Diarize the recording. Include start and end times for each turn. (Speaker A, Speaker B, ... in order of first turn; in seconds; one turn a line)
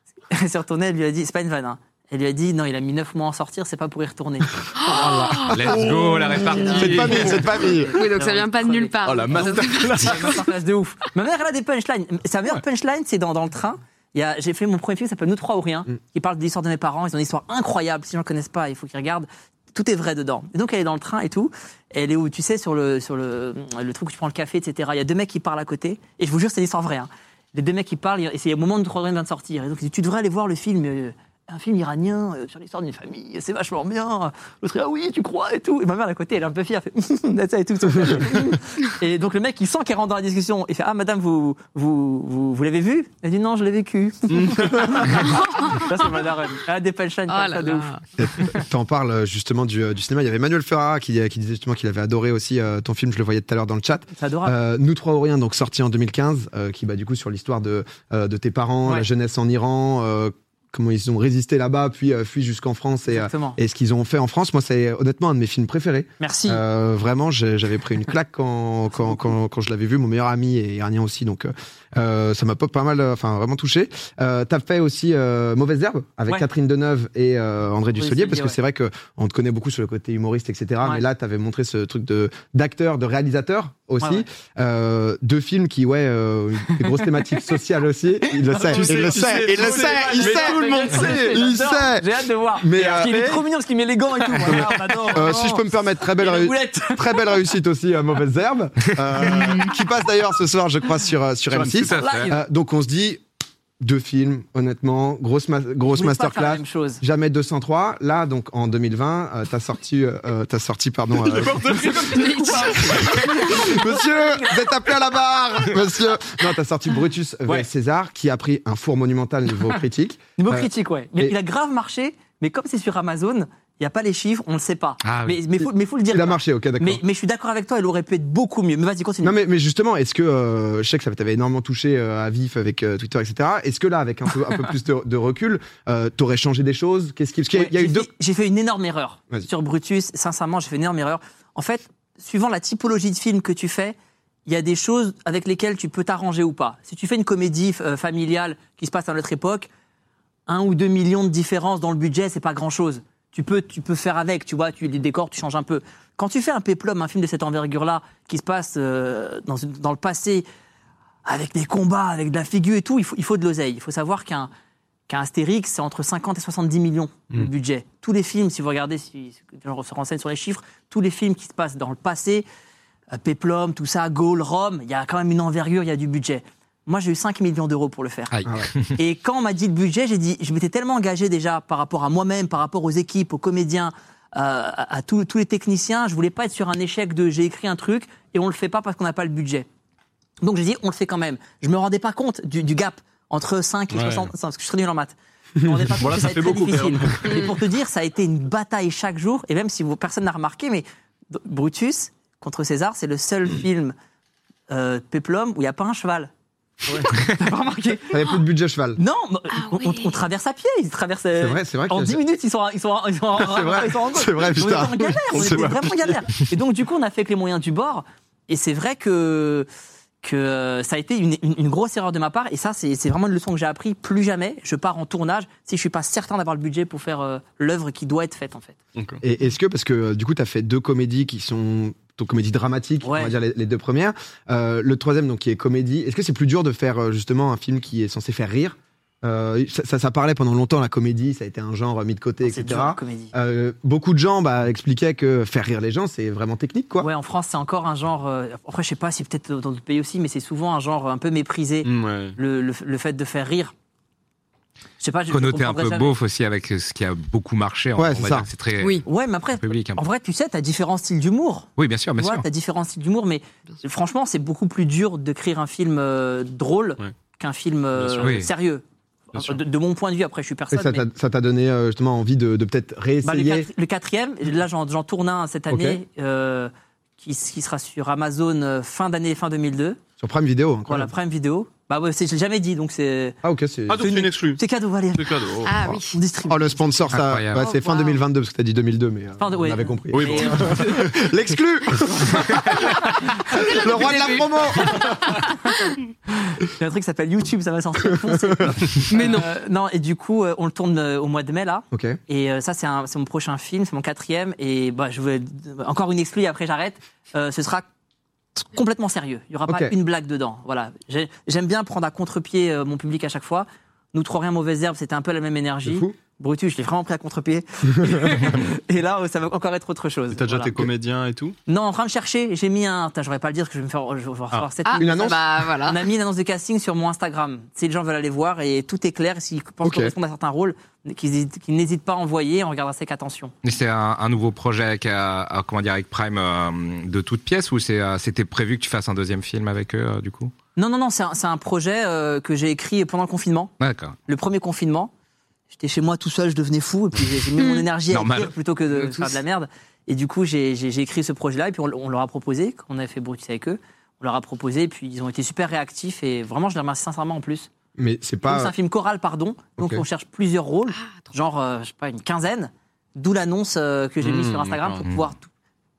Speaker A: 0.3-5.0
Speaker B: 4.8-6.0
Speaker C: 4.8-8.0
Speaker D: 5.5-7.4
Speaker E: 5.7-7.4
Speaker A: 6.2-48.6
Speaker B: 7.8-10.4
Speaker E: 9.0-10.5
Speaker E: 44.3-44.7
Speaker B: 45.2-45.9
Speaker B: 47.3-48.6
Speaker C: 48.2-93.5
Speaker A: 54.2-54.5
Speaker A: 63.1-63.6
Speaker A: 66.2-66.6
Speaker A: 78.0-78.6
Speaker A: 84.0-84.3
Speaker A: 88.5-97.3
Speaker E: 88.6-91.4
Speaker C: 94.4-103.2
Speaker E: 101.5-101.9
Speaker D: 101.7-102.3
Speaker A: 101.9-102.4
Speaker C: 103.8-112.0
Speaker A: 105.9-107.0
Speaker E: 111.2-113.0
Speaker A: 111.7-114.9
Speaker B: 112.1-113.2
Speaker C: 112.9-121.3
Speaker A: 120.4-129.4
Speaker D: 125.0-125.4
Speaker C: 126.1-127.0
Speaker C: 129.2-138.1
Speaker A: 137.5-149.7
Speaker A: 150.5-160.5
Speaker A: 161.3-164.5
Speaker A: 165.1-172.5
Speaker A: 173.1-178.3
Speaker D: 178.3-178.9
Speaker C: 178.4-178.7
Speaker A: 178.9-189.7
Speaker A: 190.4-203.9
Speaker E: 193.9-194.3
Speaker E: 196.0-197.6
Speaker A: 204.7-206.3
Speaker A: 206.9-208.3
Speaker C: 208.1-209.0
Speaker A: 209.0-219.7
Speaker B: 209.5-210.2
Speaker C: 211.4-212.2
Speaker C: 213.4-215.8
Speaker E: 215.3-216.2
Speaker A: 220.2-228.8
Speaker C: 229.2-247.1
Speaker A: 233.0-233.4
Speaker A: 242.4-243.3
Speaker A: 247.0-253.7
Speaker E: 251.8-252.4
Speaker A: 255.0-256.2
Speaker D: 255.3-260.0
Speaker C: 258.0-258.5
Speaker B: 258.8-259.1
Speaker A: 259.1-271.1
Speaker D: 261.8-262.5
Speaker E: 268.0-268.3
Speaker D: 268.2-268.5
Speaker E: 269.3-269.6
Speaker C: 270.7-273.7
Speaker A: 273.2-280.0
Speaker C: 275.7-276.0
Speaker C: 280.2-281.1
Speaker A: 280.9-283.4
Speaker C: 283.4-284.1
Speaker E: 283.9-284.6
Speaker A: 284.0-285.6
Speaker E: 285.2-285.9
Speaker B: 285.6-286.2
Speaker A: 286.1-286.8
Speaker C: 286.5-295.3
Speaker D: 287.1-287.7
Speaker B: 287.6-288.2
Speaker A: 289.4-290.7
Speaker E: 290.1-291.2
Speaker B: 293.1-294.3
Speaker A: 293.5-295.6
Speaker B: 295.0-295.6
Speaker A: 296.3-307.9
Speaker C: 298.1-299.0
Speaker B: 299.1-299.5
Speaker C: 301.9-302.2
Speaker A: 308.6-320.9
Speaker C: 309.7-309.9
Speaker C: 315.9-316.2
Speaker C: 318.0-318.5
Speaker E: 320.3-321.6
Speaker A: 321.7-333.6
Speaker B: 324.9-326.1
Speaker C: 325.0-325.6
Speaker C: 329.8-330.1
Speaker D: 333.6-340.5
Speaker A: 340.8-343.7
Speaker D: 343.8-344.2
Speaker A: 344.3-345.1
Speaker A: 345.7-357.7
Speaker B: 347.6-347.9
Speaker D: 348.1-348.5
Speaker B: 349.1-349.4
Speaker C: 358.0-358.8
Speaker A: 358.4-365.5
Speaker C: 359.8-360.0
Speaker E: 364.2-365.1